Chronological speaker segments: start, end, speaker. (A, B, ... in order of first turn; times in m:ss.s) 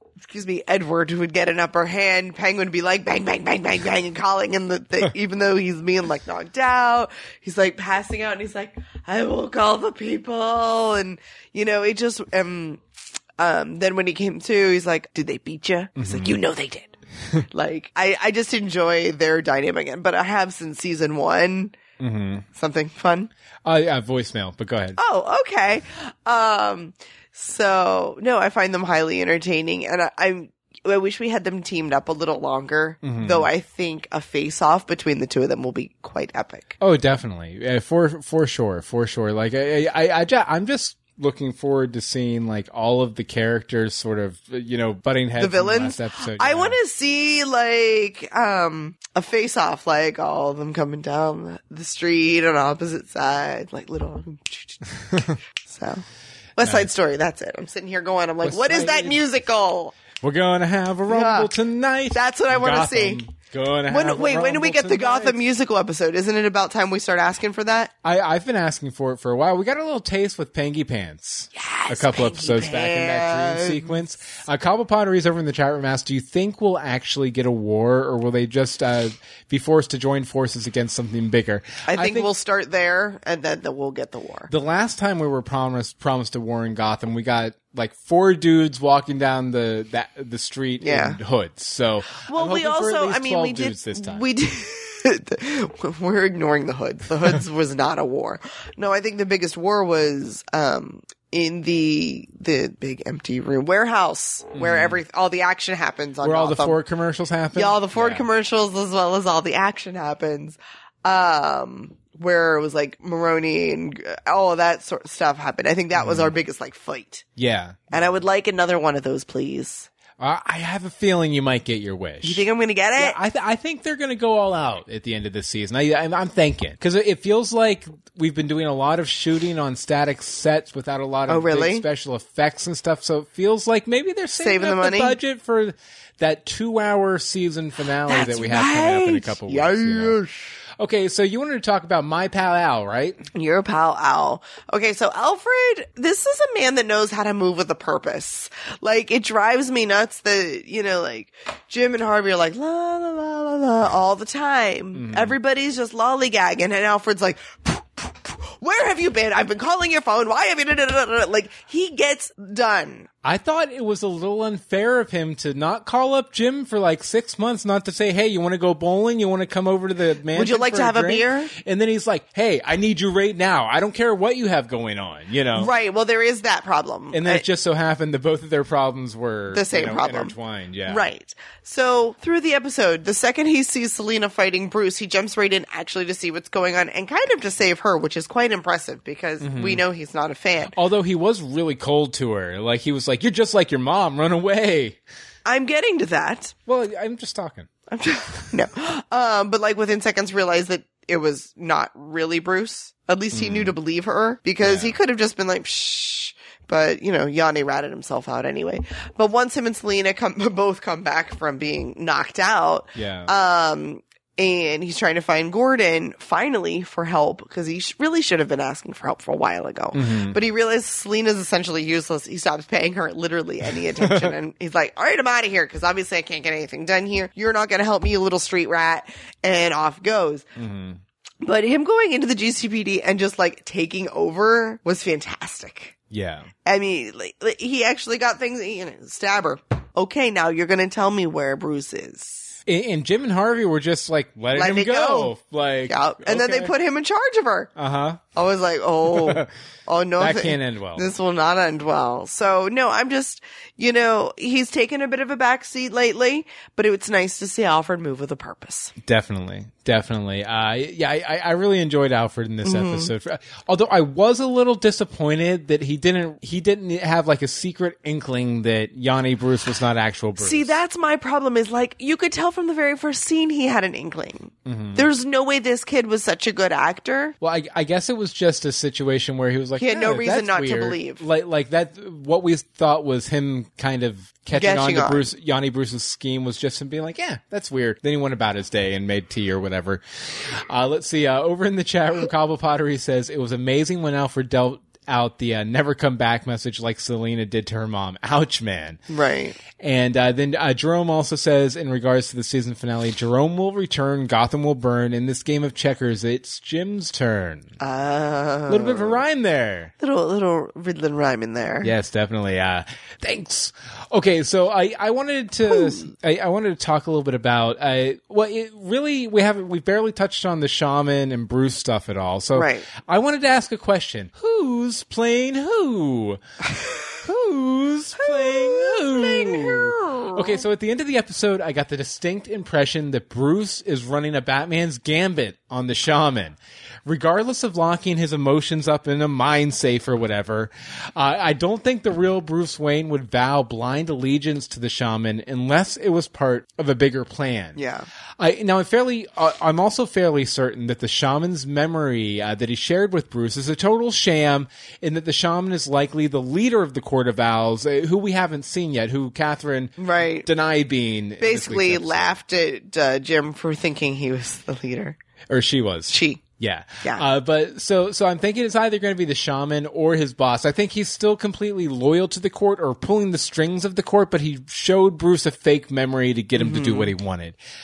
0:00.2-0:12.8 A
0:13.4-0:16.9 A
0:16.0-0:16.4 B
0:17.5-0:21.8 A
0:22.0-0:22.5 B
0:22.6-0:23.3 A
0:23.6-0:25.0 B
0:25.0-0:36.7 A
0:33.0-0:33.5 B
0:36.8-0:46.8 B
0:45.4-0:54.8 A
0:55.7-0:56.0 A
0:56.6-0:59.9 A
0:56.6-0:56.9 B
0:58.4-0:59.2 B
1:00.2-1:05.4 B
1:01.1-1:01.5 A
1:02.1-1:03.2 A
1:03.9-1:07.9 A
1:08.0-1:22.3 B
1:11.6-1:13.9 A
1:21.9-1:24.5 A
1:24.5-1:34.3 B
1:30.8-1:31.2 A
1:32.2-1:46.8 A
1:44.5-1:45.0 B
1:46.2-1:48.3 B
1:47.6-1:57.2 A
1:55.9-1:56.3 B
1:57.4-1:58.2 B
1:57.9-1:59.9 A
2:00.2-2:02.5 B
2:02.2-2:03.2 A
2:03.0-2:20.2 B
2:11.3-2:11.8 A
2:14.4-2:15.2 A
2:18.1-2:20.5 A
2:20.8-2:23.2 B
2:23.4-2:43.1 A
2:35.0-2:35.4 B
2:43.2-2:55.7 B
2:50.3-2:51.5 A
2:55.6-2:57.4 A
2:57.1-3:01.1 B
2:59.5-3:00.4 A
3:00.9-3:10.8 A
3:09.4-3:09.8 B
3:10.7-3:15.0 B
3:15.5-3:16.5 A
3:16.7-3:17.7 B
3:17.9-3:50.5 A
3:23.3-3:23.8 B
3:24.6-3:25.0 B
3:33.0-3:33.3 B
3:39.9-3:40.4 B
3:44.0-3:44.3 B
3:50.6-3:51.0 B
3:51.4-3:56.0 A
3:56.1-3:56.5 B
3:56.6-4:02.6 A
4:02.7-4:06.7 B
4:04.5-4:05.3 A
4:05.9-4:07.7 A
4:07.8-4:08.2 B
4:08.3-4:18.9 A
4:09.1-4:09.5 B
4:10.2-4:11.1 B
4:19.0-4:30.8 B
4:22.6-4:23.1 A
4:30.4-4:37.4 A
4:34.7-4:35.1 B
4:37.4-4:50.0 B
4:39.8-4:41.2 A
4:44.5-4:45.3 A
4:50.7-4:59.0 B
4:59.1-4:59.6 A
4:59.7-5:07.7 B
5:07.8-5:09.2 A
5:08.7-5:09.9 B
5:10.0-5:11.9 A
5:11.8-5:26.4 B
5:15.7-5:16.0 A
5:22.6-5:22.9 A
5:27.2-5:47.8 B
5:28.2-5:30.6 A
5:47.8-5:48.1 A
5:48.4-6:02.4 B
6:00.0-6:00.5 A
6:01.4-6:05.2 A
6:05.5-6:17.6 B
6:06.1-6:06.4 A
6:16.6-6:17.1 A